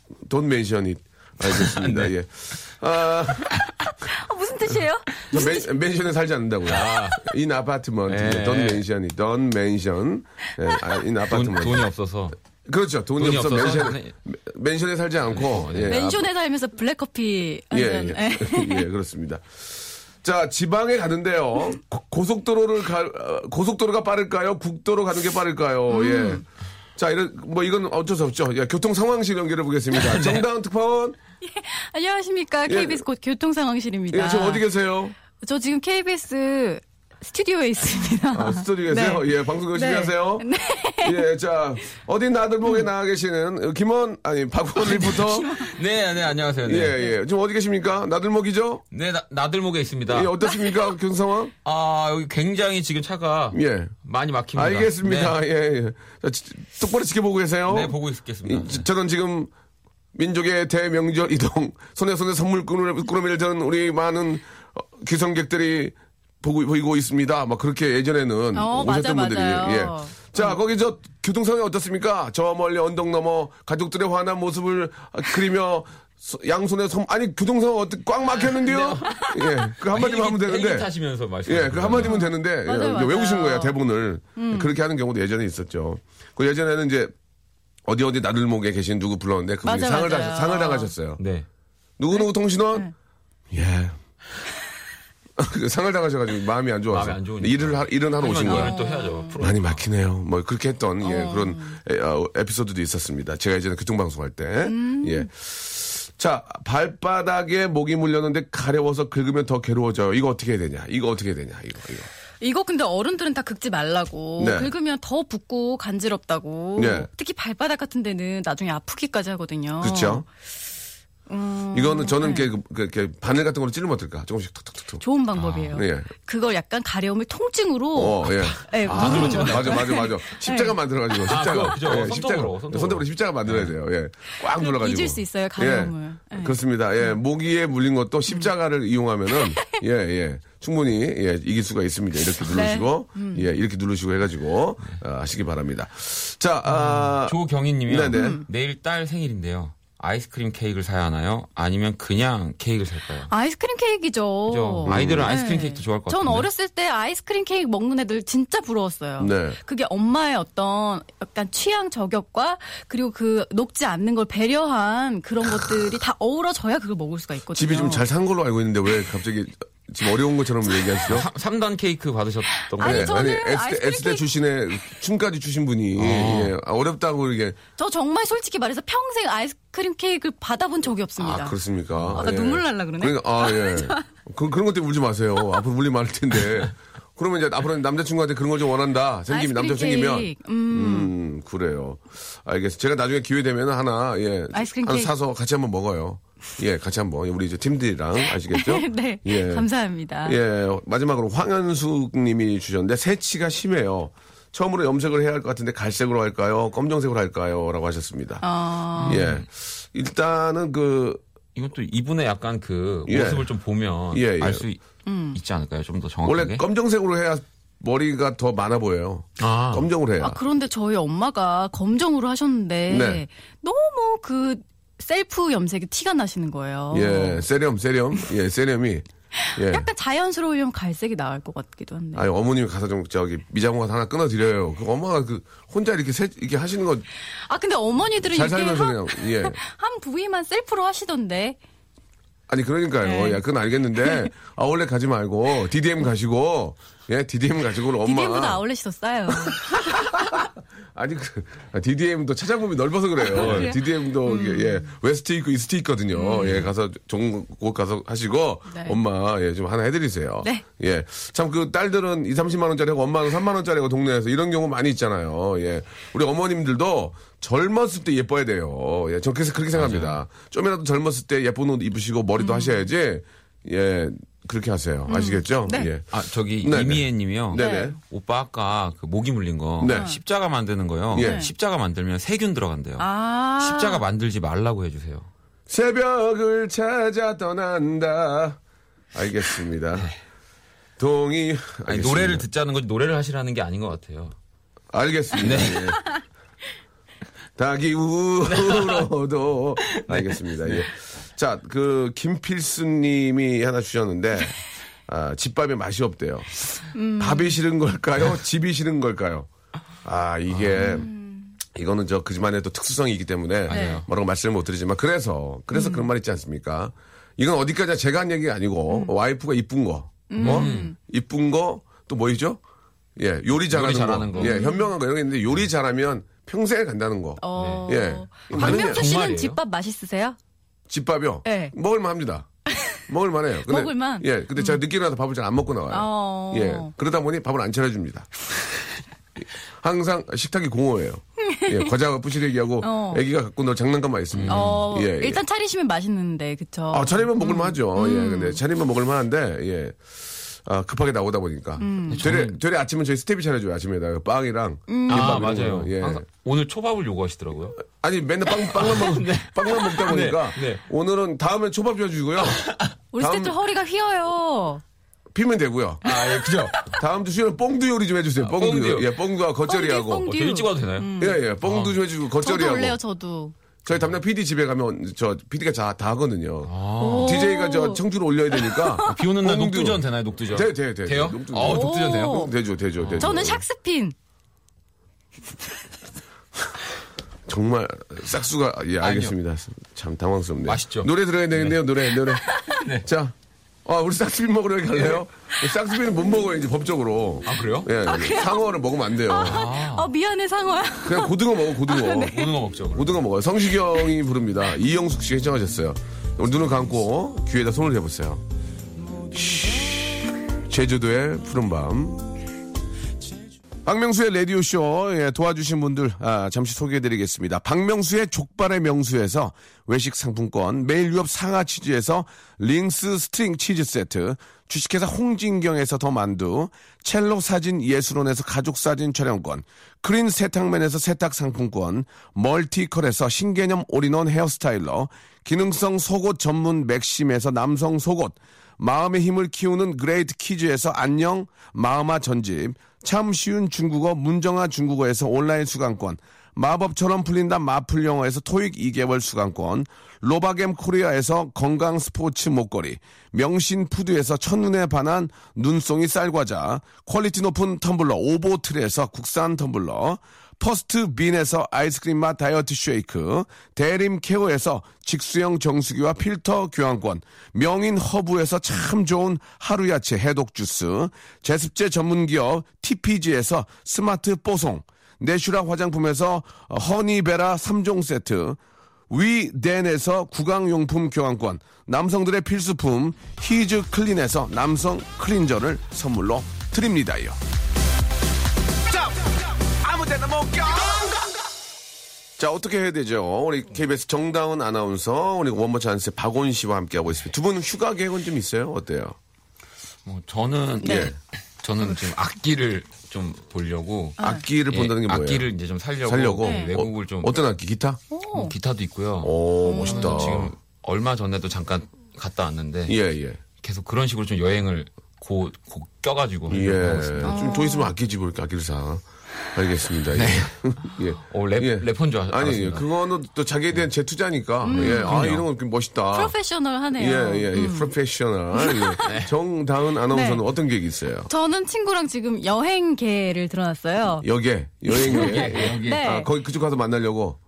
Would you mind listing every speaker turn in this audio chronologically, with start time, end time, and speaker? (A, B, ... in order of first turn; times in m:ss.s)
0:00.2-0:03.7 A
0:01.4-0:02.1 B
0:03.8-0:05.7 C
0:05.3-0:11.8 A
0:06.6-0:07.2 B
0:08.1-0:08.8 B
0:11.3-0:12.4 B
0:12.6-0:16.3 A
0:13.2-0:14.1 B
0:15.3-0:16.0 B
0:15.9-0:18.9 C
0:17.7-0:26.4 A
0:25.9-0:26.4 C
0:27.0-0:31.2 A
0:29.9-0:30.4 B
0:31.4-0:34.7 C
0:32.6-0:33.0 A
0:34.1-0:35.2 A
0:35.4-0:41.2 C
0:38.3-0:45.6 A
0:44.9-0:45.7 C
0:45.0-0:47.0 B
0:46.6-0:48.8 A
0:48.9-0:50.3 B
0:50.1-0:51.5 A
0:51.6-0:55.4 B
0:53.5-0:53.9 A
0:54.5-0:59.5 A
0:57.7-0:58.8 B
1:00.1-1:20.9 A
1:08.5-1:10.6 C
1:18.4-1:19.2 B
1:19.8-1:22.2 B
1:21.4-1:27.1 A
1:22.0-1:23.8 C
1:24.4-1:24.7 C
1:27.8-1:31.2 A
1:29.6-1:30.9 C
1:31.2-1:31.4 B
1:32.0-1:32.9 A
1:32.1-1:32.9 C
1:33.5-1:34.0 A
1:35.4-1:38.8 A
1:36.9-1:39.8 B
1:38.4-1:39.3 C
1:39.4-1:52.1 A
1:41.0-1:41.8 C
1:44.6-1:45.3 C
1:52.4-2:00.3 C
1:54.4-1:54.7 A
1:56.8-1:57.1 A
1:59.8-2:00.2 A
2:01.3-2:02.5 C
2:01.7-2:05.0 A
2:05.0-2:10.8 C
2:05.3-2:05.8 B
2:05.7-2:06.1 A
2:07.9-2:27.4 A
2:08.5-2:10.0 B
2:11.2-2:13.7 B
2:14.4-2:17.2 C
2:22.4-2:23.5 C
2:26.6-2:33.3 B
2:27.9-2:28.4 A
2:28.1-2:28.4 C
2:33.3-2:48.0 C
2:34.5-2:36.5 B
2:34.8-2:35.3 A
2:39.2-2:39.6 A
2:47.5-2:51.3 A
2:51.0-2:53.2 B
2:52.5-2:54.3 C
2:52.8-2:57.6 A
2:56.0-2:56.5 B
2:57.8-3:01.6 C
3:01.2-3:19.6 A
3:01.9-3:02.2 B
3:02.1-3:04.0 C
3:09.3-3:11.1 C
3:14.5-3:15.1 C
3:18.5-3:20.4 C
3:20.2-3:28.4 A
3:28.4-3:29.2 C
3:29.0-3:29.4 B
3:29.0-3:31.2 A
3:31.5-3:34.8 B
3:33.1-3:33.5 A
3:34.1-3:34.6 A
3:35.0-3:35.4 C
3:35.3-3:36.6 B
3:36.2-3:40.4 A
3:39.4-3:39.9 B
3:40.2-3:47.4 C
3:42.9-3:43.2 A
3:46.9-3:49.0 A
3:49.4-3:52.2 C
3:49.6-3:49.9 A
3:52.1-3:57.0 A
3:57.4-4:01.6 C
3:58.2-3:59.6 A
4:02.5-4:08.6 A
4:03.0-4:03.4 C
4:04.0-4:04.3 C
4:08.0-4:09.8 C
4:09.4-4:38.0 A
4:13.2-4:14.9 C
4:13.4-4:13.7 B
4:16.1-4:16.6 C
4:18.7-4:19.0 C
4:29.7-4:30.2 B
4:32.4-4:32.9 C
4:35.1-4:35.9 C
4:36.1-4:45.3 B
4:37.5-4:37.9 C
4:39.8-4:40.1 A
4:39.8-4:40.2 C
4:41.1-4:41.4 A
4:41.2-4:41.5 C
4:43.0-4:44.0 C
4:45.7-4:48.6 A
4:49.1-4:50.1 A
4:51.0-4:52.4 A
4:51.8-4:54.3 B
4:54.9-4:56.0 A
4:55.4-4:56.0 B
4:57.6-5:09.5 A
4:58.4-4:59.1 B
4:59.9-5:00.9 B
5:06.9-5:07.6 C
5:10.0-5:11.1 A
5:10.8-5:11.5 C
5:11.7-5:22.6 A
5:13.7-5:14.0 B
5:13.7-5:14.0 C
5:15.7-5:16.1 C
5:18.9-5:19.1 C
5:20.3-5:21.0 C
5:20.4-5:20.9 B
5:23.2-5:29.0 A
5:23.7-5:24.6 B
5:24.4-5:24.9 C
5:27.4-5:30.4 C
5:27.6-5:28.0 B
5:28.5-5:29.6 B
5:30.9-5:32.5 A
5:31.4-5:31.7 C
5:32.7-5:33.0 C
5:33.1-5:38.3 A
5:33.7-5:34.8 C
5:35.9-5:36.9 C
5:39.8-5:45.4 A
5:41.4-5:41.9 C
5:42.8-5:43.2 C
5:44.3-5:44.8 B
5:44.5-5:48.6 C
5:46.9-5:50.0 A
5:50.6-5:56.2 A
5:51.8-5:52.2 C
5:52.1-5:52.6 B
5:54.9-5:55.4 C
5:55.1-5:57.8 B
5:57.8-6:02.7 A
5:58.6-6:00.8 B
6:02.4-6:02.9 B
6:03.1-6:04.8 C
6:03.2-6:03.5 A
6:05.3-6:06.0 A
6:06.0-6:06.9 B
6:06.0-6:06.8 C
6:06.9-6:10.3 A
6:08.4-6:09.1 B
6:09.7-6:11.4 C
6:10.2-6:12.0 B
6:11.2-6:13.0 A
6:12.4-6:13.5 C
6:13.8-6:23.6 A
6:16.6-6:17.4 B
6:17.0-6:19.2 C
6:19.1-6:22.4 B
6:21.7-6:22.5 C
6:23.0-6:23.5 B
6:23.2-6:24.1 C
6:27.5-6:33.3 A
6:29.0-6:29.3 B
6:30.6-6:31.8 B
6:32.4-6:32.8 C
6:32.8-6:33.1 B
6:33.8-6:39.6 A
6:37.4-6:37.9 B
6:38.0-6:42.5 C
6:39.4-6:40.1 B
6:41.0-6:42.4 A
6:42.2-6:43.2 B
6:42.9-6:48.4 A
6:49.3-6:52.3 A
6:53.8-7:58.6 A
7:59.1-8:07.4 A
8:09.8-8:11.2 A
8:12.4-8:19.2 A
8:20.0-8:27.3 B
8:20.8-8:21.1 C
8:20.8-8:21.1 A
8:24.2-8:24.4 C
8:24.2-8:25.4 A
8:26.0-8:28.0 A
8:26.4-8:26.7 C
8:28.1-8:28.5 C
8:28.3-8:33.0 B
8:29.2-8:30.5 A
8:29.6-8:30.2 C
8:32.9-8:33.4 A
8:33.6-8:37.4 B
8:36.5-8:46.3 A
8:37.2-8:37.9 C
8:40.1-8:42.9 B
8:44.6-8:45.2 C
8:44.7-8:45.4 B
8:46.1-8:47.9 C
8:47.0-8:51.3 A
8:48.5-8:49.0 C
8:49.0-8:49.3 B
8:50.1-8:50.4 C
8:51.3-8:54.3 C
8:54.2-8:57.4 A
8:54.9-8:56.3 C
8:55.0-8:56.1 B